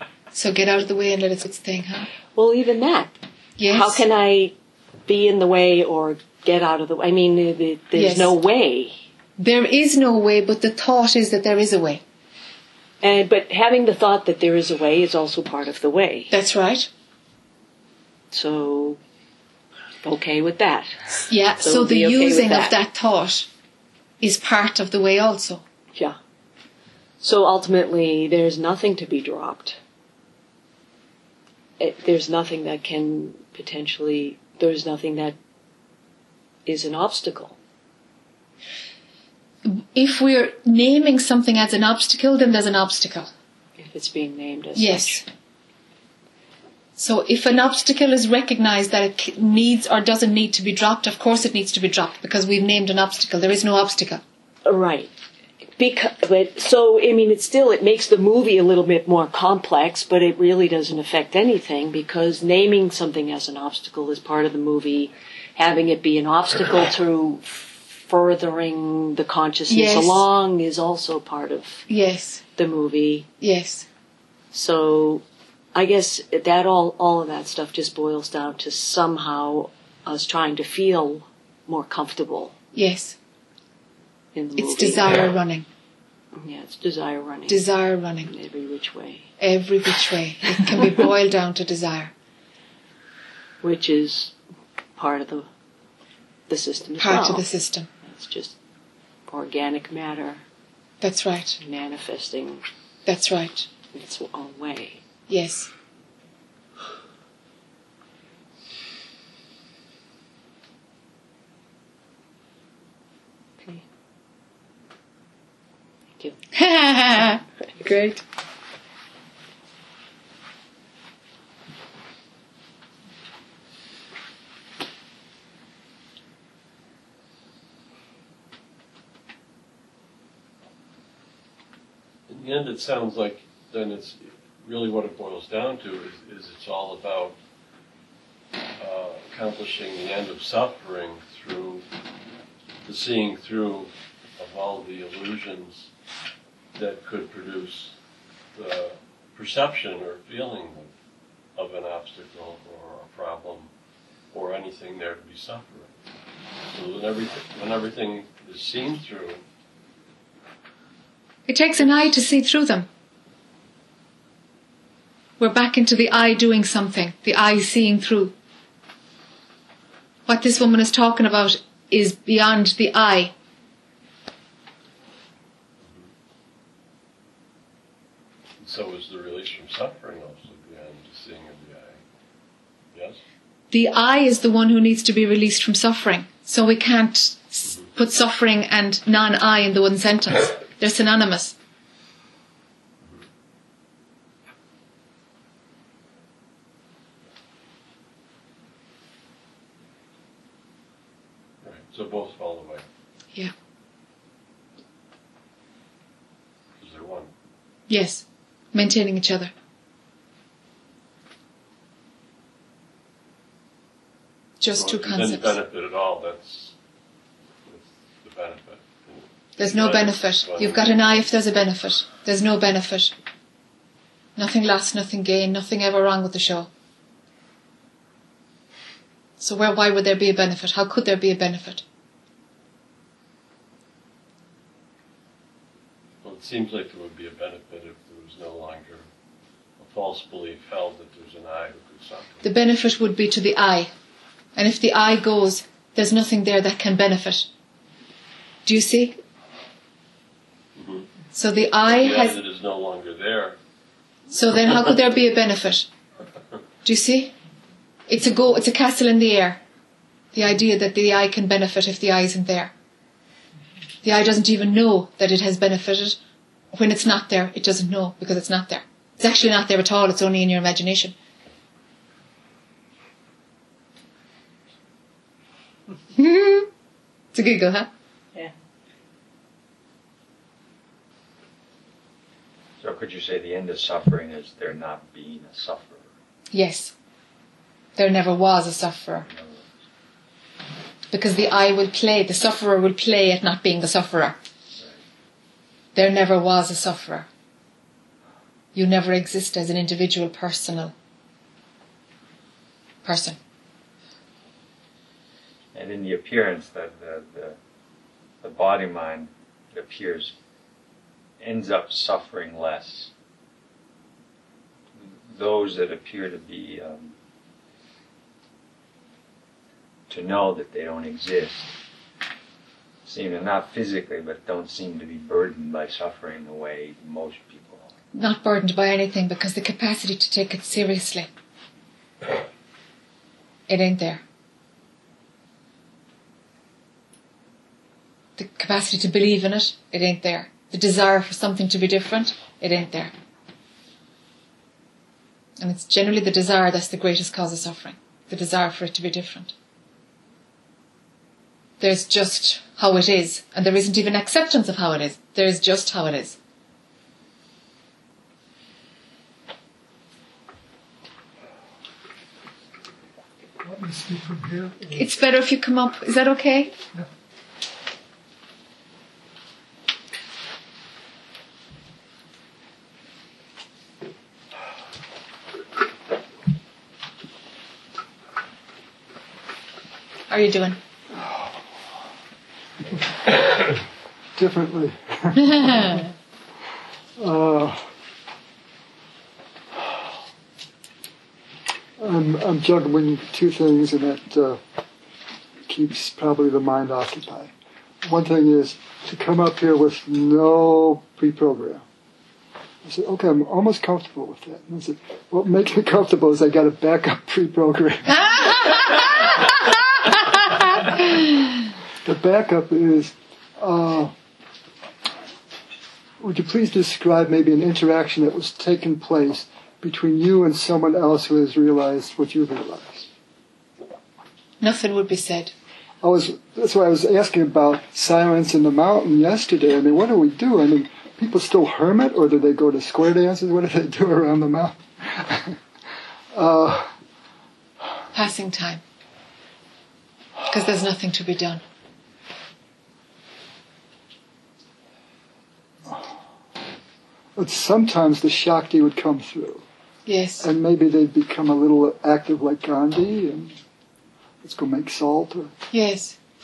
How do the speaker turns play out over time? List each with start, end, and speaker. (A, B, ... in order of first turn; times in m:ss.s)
0:00.3-0:02.1 A
0:02.3-0:03.1 B
0:03.6-0:04.0 A
0:03.7-0:04.5 B
0:05.0-0:08.9 B
0:07.9-0:08.3 A
0:09.4-0:12.0 A
0:13.0-0:16.3 B
0:16.3-0:16.9 A
0:18.3-0:19.0 B
0:20.0-0:22.7 B
0:21.3-0:23.5 A
0:24.2-0:25.6 A
0:27.2-0:29.8 B
0:31.8-0:35.4 B
0:36.6-0:37.5 B
0:39.6-0:43.3 A
0:43.8-0:45.2 B
0:44.8-0:45.2 A
0:47.0-0:54.2 A
0:54.6-0:55.1 B
0:55.8-1:11.9 B
1:09.7-1:10.2 A
1:11.9-1:12.4 A
1:12.6-1:13.3 B
1:13.4-1:13.8 A
1:14.5-1:15.2 B
1:15.7-1:22.6 B
1:22.7-1:23.2 A
1:24.3-1:25.2 B
1:24.6-1:25.6 A
1:26.4-1:27.6 B
1:27.5-1:28.3 A
1:28.2-1:29.3 B
1:29.4-1:32.1 A
1:33.6-1:34.3 B
1:35.0-1:35.5 B
1:36.5-1:37.4 B
1:37.0-1:37.9 A
1:38.0-1:38.6 B
1:39.3-1:40.4 B
1:41.0-1:41.6 A
1:41.6-1:42.6 B
1:43.0-1:43.7 A
1:43.9-1:45.0 B
1:45.3-1:45.7 A
1:56.5-1:58.2 A
2:12.3-2:17.4 C
2:18.8-2:21.8 C
2:22.8-2:25.9 C
2:26.7-2:27.9 C
2:28.5-2:30.9 C
2:31.6-2:33.7 C
2:34.3-2:35.9 C
2:36.7-2:39.4 C
2:41.5-2:42.9 A
2:45.4-2:48.3 A
2:50.3-2:53.3 A
2:55.8-2:56.1 C
2:58.6-3:02.0 C
3:02.9-3:03.2 C
3:03.7-3:11.5 A
3:21.6-3:22.8 C
3:26.8-3:27.3 C
3:27.9-3:29.5 A
3:34.6-3:35.6 A
3:34.7-3:36.7 C
3:37.6-3:41.4 C
3:39.6-3:43.1 A
3:44.4-3:46.7 A
3:49.4-3:51.8 A
3:56.2-3:59.1 C
3:59.8-4:02.4 C
4:02.4-4:03.9 A
4:04.6-4:07.5 A
4:08.6-4:09.2 A
4:10.8-4:11.1 C
4:11.3-4:12.4 A
4:11.8-4:13.6 C
4:14.3-4:15.9 A
4:16.8-4:17.3 A
4:18.1-4:19.6 A
4:20.3-4:22.7 A
4:24.0-4:26.2 A
4:26.7-4:31.1 A
4:36.2-4:36.7 A
4:37.3-4:37.9 A
4:42.8-4:46.0 D
4:46.5-4:46.9 A
4:48.0-4:49.3 A
4:49.4-4:49.6 D
4:51.1-4:54.4 A
4:55.9-4:57.3 A
4:58.7-5:00.9 A
5:03.0-5:03.4 A
5:05.7-5:07.6 D
5:08.4-5:10.3 D
5:11.4-5:13.1 D
5:15.0-5:17.1 D
5:20.1-5:21.7 D
5:23.0-5:27.9 D
5:28.1-5:31.3 A
5:33.7-5:34.2 A
5:38.4-5:43.1 A
5:45.6-5:49.5 A
5:51.8-5:56.4 A
6:03.6-6:04.9 E
6:04.9-6:06.7 A
6:20.3-6:20.8 A
6:21.1-6:21.6 E
6:23.3-6:23.7 E
6:24.4-6:26.0 E
6:27.2-6:27.9 E
6:32.0-6:34.6 E
6:35.7-6:37.5 E
6:38.0-6:41.8 E
6:42.8-6:49.0 E
6:52.0-6:54.1 E
6:56.2-7:03.1 E
7:04.6-7:05.5 A
7:06.0-7:15.6 E
7:16.3-7:16.9 E
7:18.1-7:18.8 A
7:20.5-7:21.6 A
7:27.4-7:29.6 E
7:30.0-7:30.5 A
7:30.4-7:33.5 E
7:34.4-7:35.5 E
7:35.7-7:36.2 A